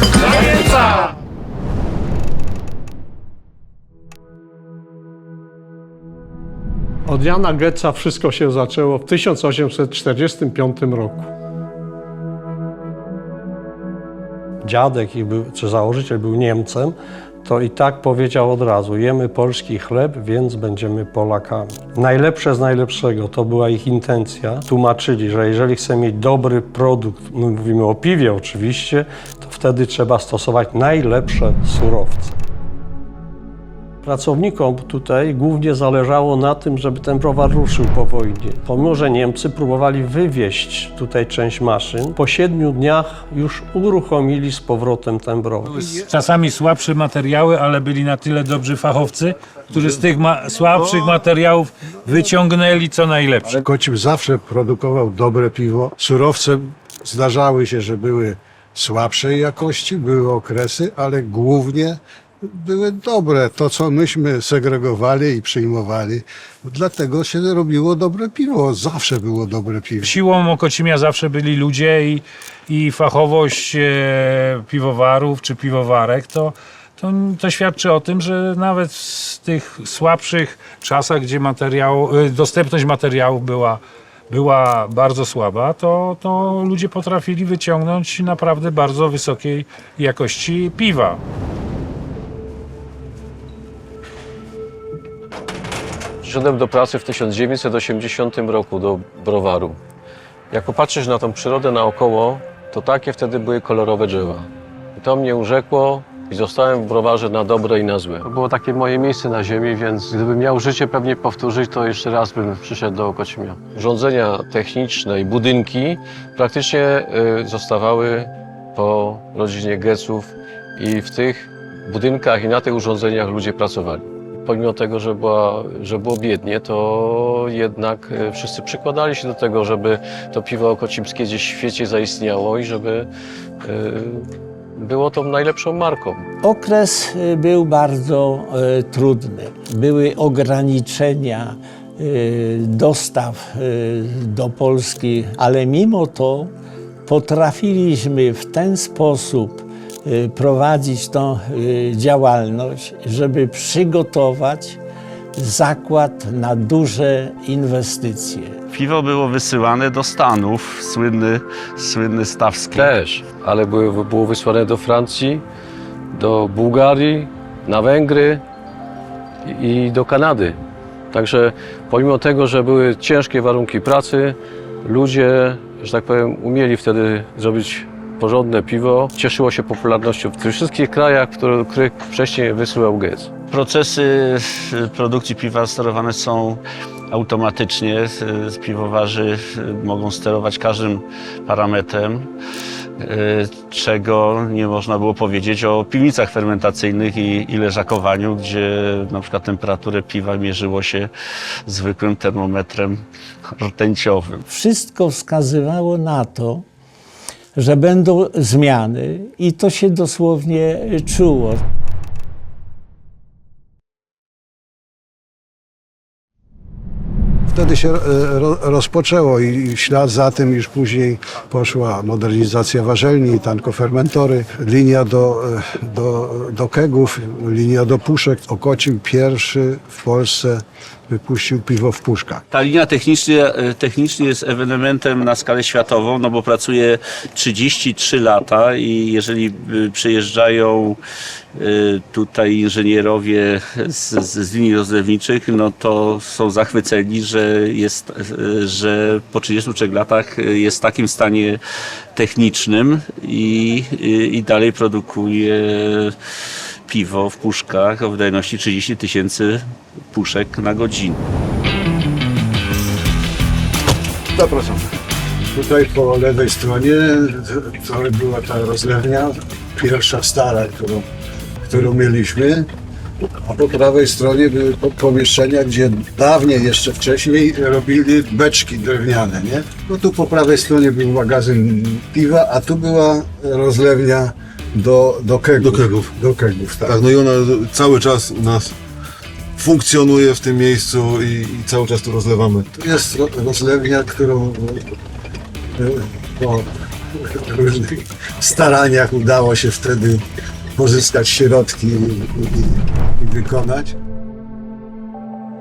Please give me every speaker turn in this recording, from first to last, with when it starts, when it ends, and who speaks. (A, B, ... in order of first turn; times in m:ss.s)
0:00.2-0:01.0 A
0:07.1-0:11.3 B
0:14.6-0:32.4 B
0:34.0-0:45.7 B
0:45.8-0:53.6 A
0:53.5-1:10.1 C
1:10.0-1:31.2 A
1:36.2-1:39.8 D
1:40.5-2:13.1 D
2:13.6-2:16.3 D
2:16.4-2:26.5 E
2:27.1-2:34.8 E
2:35.4-2:38.6 E
2:38.7-2:42.9 F
2:42.7-2:45.4 D
2:46.1-2:48.4 D
2:49.4-2:50.6 D
2:51.1-3:03.3 D
3:03.5-3:12.3 F
3:13.0-3:21.1 F
3:21.6-3:23.0 F
3:23.6-3:24.4 F
3:24.5-3:26.6 E
3:27.6-3:31.6 E
3:37.5-3:52.4 C
3:52.5-4:01.0 F
4:01.5-4:11.6 F
4:12.1-4:16.2 F
4:16.9-4:21.2 F
4:24.4-4:24.8 G
4:25.5-4:31.0 C
4:31.6-4:32.7 C
4:33.4-4:46.9 C
4:45.6-4:46.1 G
4:46.8-4:48.7 G
4:49.6-4:52.7 G
4:52.8-4:54.8 C
4:55.8-5:00.2 C
5:00.8-5:03.9 C